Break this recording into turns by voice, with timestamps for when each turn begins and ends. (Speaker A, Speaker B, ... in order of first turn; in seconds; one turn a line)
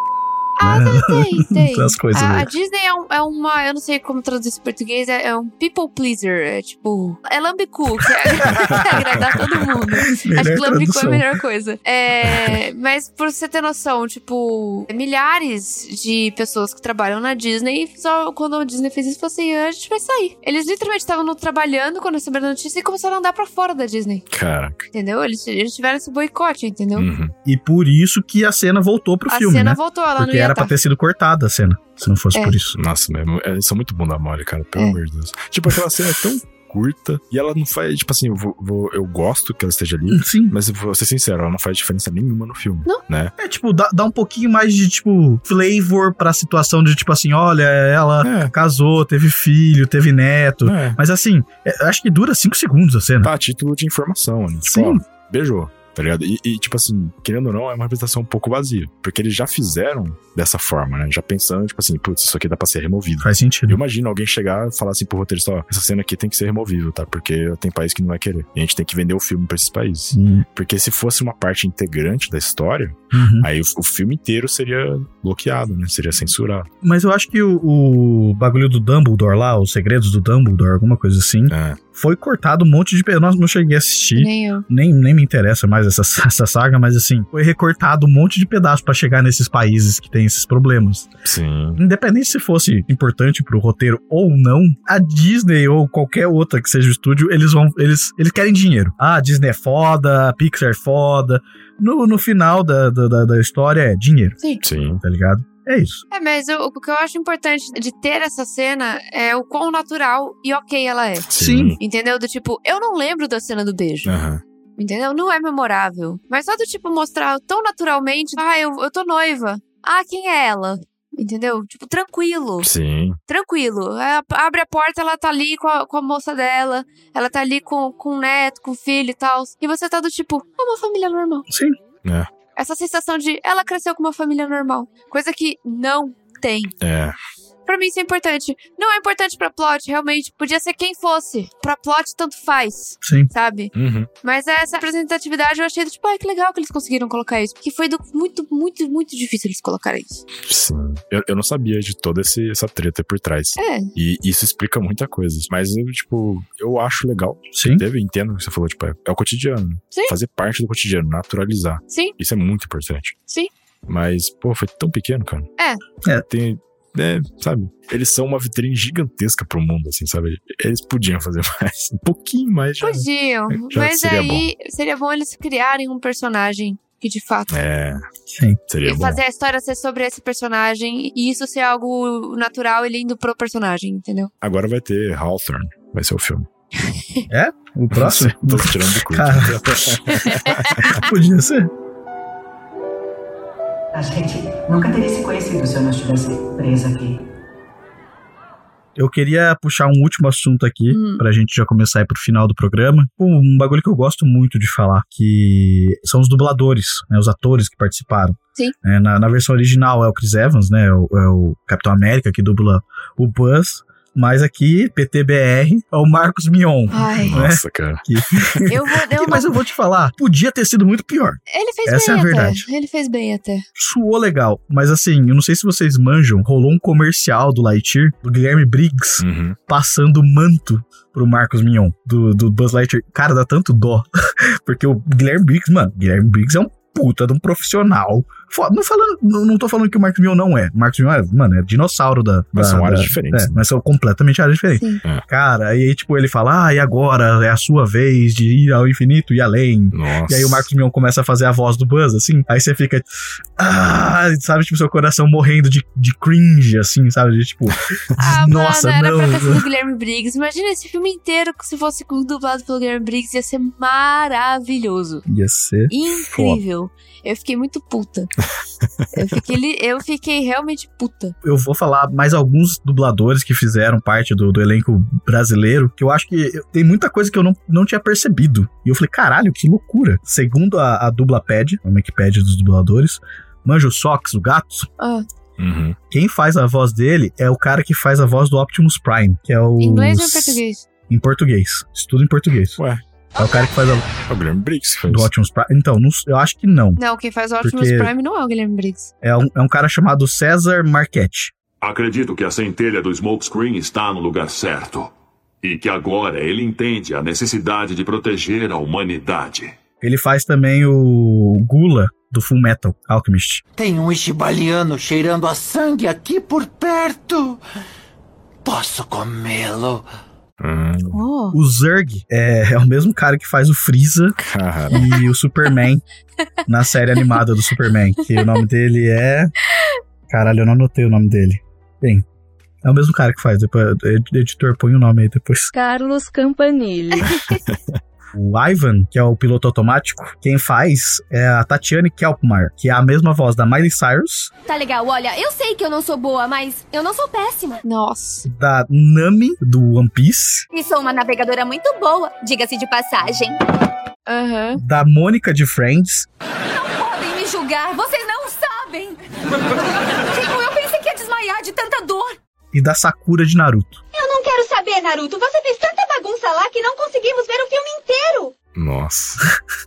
Speaker A: 0.6-24.2
Speaker B: 0.6-2.5
Speaker B: 8.4-8.8
Speaker B: 10.1-11.3
Speaker C: 24.3-24.9
Speaker A: 24.9-27.1
Speaker C: 27.0-27.3
Speaker B: 27.4-32.8
Speaker A: 29.3-30.7
Speaker C: 32.8-43.3
Speaker B: 40.1-40.5
Speaker B: 43.4-53.3
Speaker C: 48.2-48.5
Speaker C: 50.6-51.0
Speaker C: 53.2-76.7
Speaker B: 54.7-55.0
Speaker B: 63.2-63.8
Speaker B: 70.1-70.5
Speaker B: 73.1-73.5
Speaker B: 76.8-91.1
Speaker C: 81.5-81.8
Speaker A: 84.2-84.7
Speaker C: 91.2-91.8
Speaker B: 91.8-104.4
Speaker C: 104.6-105.0
Speaker B: 105.0-106.0
Speaker A: 106.1-111.3
Speaker C: 111.3-111.8
Speaker B: 111.3-111.8
Speaker A: 111.8-114.1
Speaker C: 114.1-114.4
Speaker A: 114.8-122.7
Speaker C: 122.6-123.2
Speaker A: 123.3-131.5
Speaker B: 131.5-131.8
Speaker C: 132.0-132.3
Speaker A: 132.6-136.7
Speaker C: 136.8-137.2
Speaker A: 137.7-143.7
Speaker B: 143.0-143.3
Speaker C: 143.7-144.1
Speaker A: 144.2-150.2
Speaker C: 150.4-163.2
Speaker A: 153.6-153.9
Speaker B: 157.5-157.8
Speaker C: 163.9-165.5
Speaker C: 166.3-174.5
Speaker A: 172.8-177.5
Speaker C: 177.5-178.0
Speaker B: 178.3-178.6
Speaker C: 178.7-179.2
Speaker A: 178.8-184.3
Speaker C: 184.4-186.5
Speaker B: 187.3-190.0
Speaker C: 187.9-191.1
Speaker A: 190.2-191.0
Speaker B: 190.9-191.7
Speaker D: 193.9-197.2
Speaker B: 199.0-222.7
Speaker A: 200.9-201.2
Speaker A: 216.9-217.4
Speaker C: 217.2-218.6
Speaker A: 218.7-219.5
Speaker A: 221.5-223.7
Speaker B: 223.8-259.6
Speaker C: 229.2-229.6
Speaker C: 242.5-243.6
Speaker A: 244.7-245.0
Speaker C: 249.9-250.7
Speaker A: 258.2-265.2
Speaker B: 265.3-266.6
Speaker A: 265.9-268.3
Speaker A: 269.1-271.4
Speaker B: 271.4-284.9
Speaker A: 285.0-285.2
Speaker C: 285.6-286.0
Speaker B: 286.1-292.8
Speaker A: 289.8-290.9
Speaker C: 292.8-293.0
Speaker B: 293.4-294.1
Speaker C: 294.2-295.3
Speaker B: 295.1-297.0
Speaker A: 297.0-299.1
Speaker B: 297.6-298.1
Speaker B: 299.2-301.5
Speaker E: 301.8-309.8
Speaker B: 310.0-313.6
Speaker F: 313.8-317.6
Speaker F: 318.6-320.1
Speaker C: 320.6-321.2
Speaker A: 321.1-321.6
Speaker B: 321.5-324.4
Speaker C: 324.4-325.1
Speaker B: 324.9-326.0
Speaker B: 326.7-329.5
Speaker A: 327.1-327.4
Speaker A: 328.2-328.6
Speaker B: 330.3-332.2
Speaker B: 332.8-335.7
Speaker G: 335.7-337.2
Speaker A: 337.2-337.6
Speaker C: 337.7-338.0
Speaker B: 338.3-344.5
Speaker G: 344.7-347.8
Speaker A: 347.9-348.4
Speaker B: 348.4-350.7
Speaker G: 350.7-353.6
Speaker A: 354.3-354.8
Speaker B: 354.8-356.3
Speaker G: 356.7-359.7
Speaker G: 360.2-362.4
Speaker B: 362.7-364.0
Speaker G: 364.1-368.5
Speaker C: 368.8-369.4